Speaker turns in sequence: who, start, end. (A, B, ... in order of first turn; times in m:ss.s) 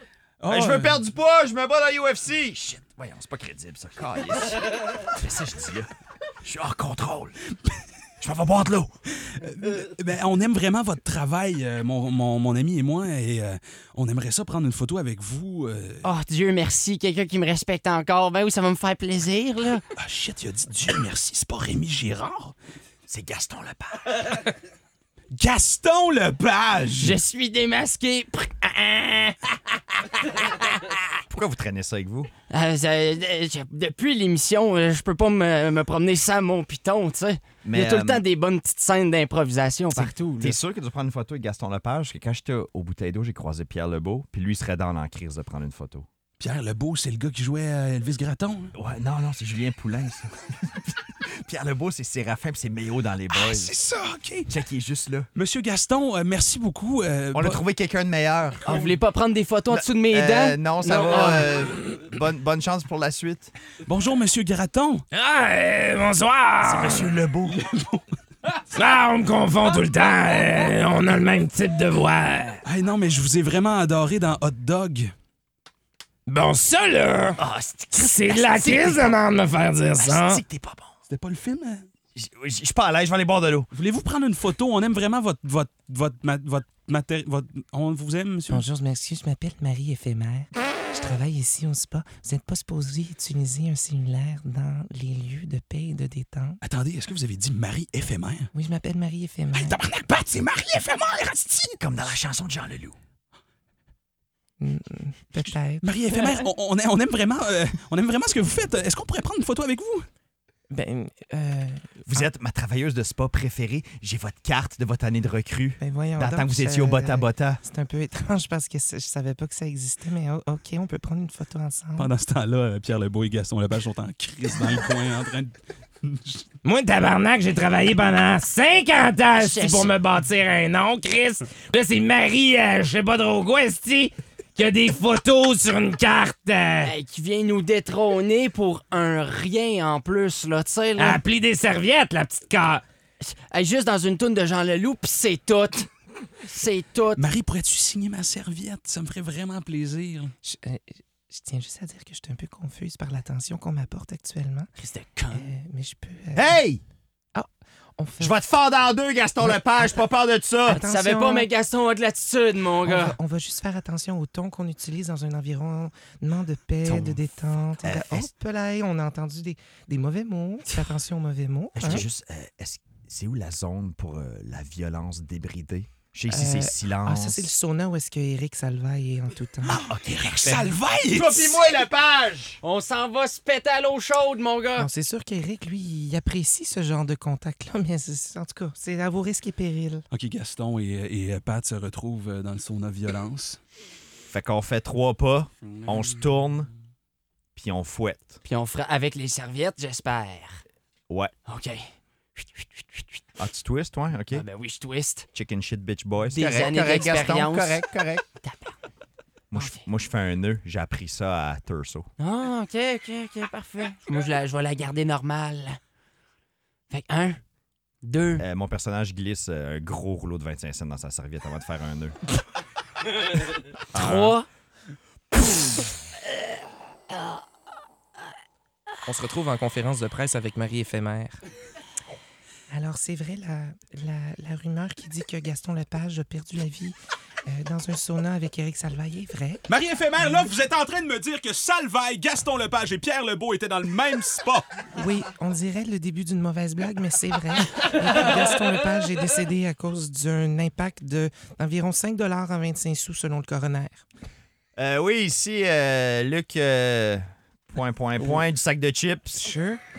0:00.4-0:01.0 A
0:00.4-0:05.9 B
0:06.4-0:07.4 B
0:08.2-0:08.9 B
0:09.1-0:16.0 A
0:16.0-0:19.8 C
0:20.0-0:22.5 A
0:23.1-0:24.4 B
0:25.3-0:27.2 A
0:26.9-0:30.9 C
0:31.3-0:32.3 B
0:32.5-0:40.6 C
0:37.6-0:38.2 B
0:39.9-0:46.1 B
0:46.4-0:48.7 A
0:48.7-0:53.7 B
0:53.3-0:54.5 A
0:54.5-0:55.3 B
0:55.3-0:57.6 A
0:57.3-0:58.9 B
0:58.6-1:01.5 C
0:59.7-1:03.5 B
1:03.8-1:05.0 A
1:05.1-1:07.1 D
1:06.6-1:07.6 B
1:07.6-1:08.0 A
1:08.6-1:12.6 D
1:12.6-1:15.1 A
1:16.3-1:17.4 D
1:17.4-1:19.2 B
1:18.0-1:20.4 D
1:20.0-1:20.9 B
1:21.1-1:21.9 A
1:22.1-1:23.7 B
1:23.7-1:28.7 A
1:28.5-1:36.6 E
1:36.6-1:38.5 A
1:38.5-1:39.8 E
1:39.5-1:41.8 A
1:41.8-1:43.0 B
1:44.6-1:46.3 E
1:45.8-1:50.1 A
1:50.7-1:51.3 D
1:51.3-1:52.2 E
1:52.1-1:57.6 B
1:55.8-2:02.1 E
2:02.0-2:06.5 A
2:06.6-2:16.9 D
2:09.3-2:10.0 C
2:16.8-2:21.2 C
2:21.0-2:22.8 D
2:23.2-2:25.9 C
2:26.4-2:27.2 C
2:27.2-2:30.3 A
2:30.4-2:34.7 E
2:34.8-2:35.5 C
2:35.3-2:36.5 E
2:36.3-2:36.8 B
2:37.3-2:38.3 E
2:38.2-2:40.8 B
2:40.6-2:43.1 C
2:40.7-2:41.5 E
2:42.8-2:52.0 E
2:46.8-2:47.2 B
2:47.8-2:48.3 B
2:51.7-2:57.5 B
2:56.3-2:59.9 E
2:59.6-3:01.6 A
2:59.8-3:02.6 B
3:02.6-3:04.9 C
3:04.8-3:10.0 E
3:10.1-3:13.6 A
3:14.3-3:16.7 B
3:17.5-3:18.4 B
3:18.4-3:20.6 C
3:21.4-3:23.0 C
3:23.4-3:24.4 B
3:24.3-3:25.2 C
3:25.3-3:28.2 B
3:26.3-3:27.9 C
3:28.4-3:28.8 C
3:29.5-3:32.1 B
3:29.5-3:29.8 C
3:32.2-3:35.8 C
3:36.9-3:37.4 C
3:38.0-3:38.4 C
3:38.4-3:42.2 B
3:43.9-3:44.4 B
3:43.9-3:44.4 C
3:49.0-3:51.4 D
3:52.7-3:57.0 E
3:57.5-3:59.6 E
3:59.7-4:04.7 A
4:04.9-4:14.0 E
4:14.8-4:19.5 B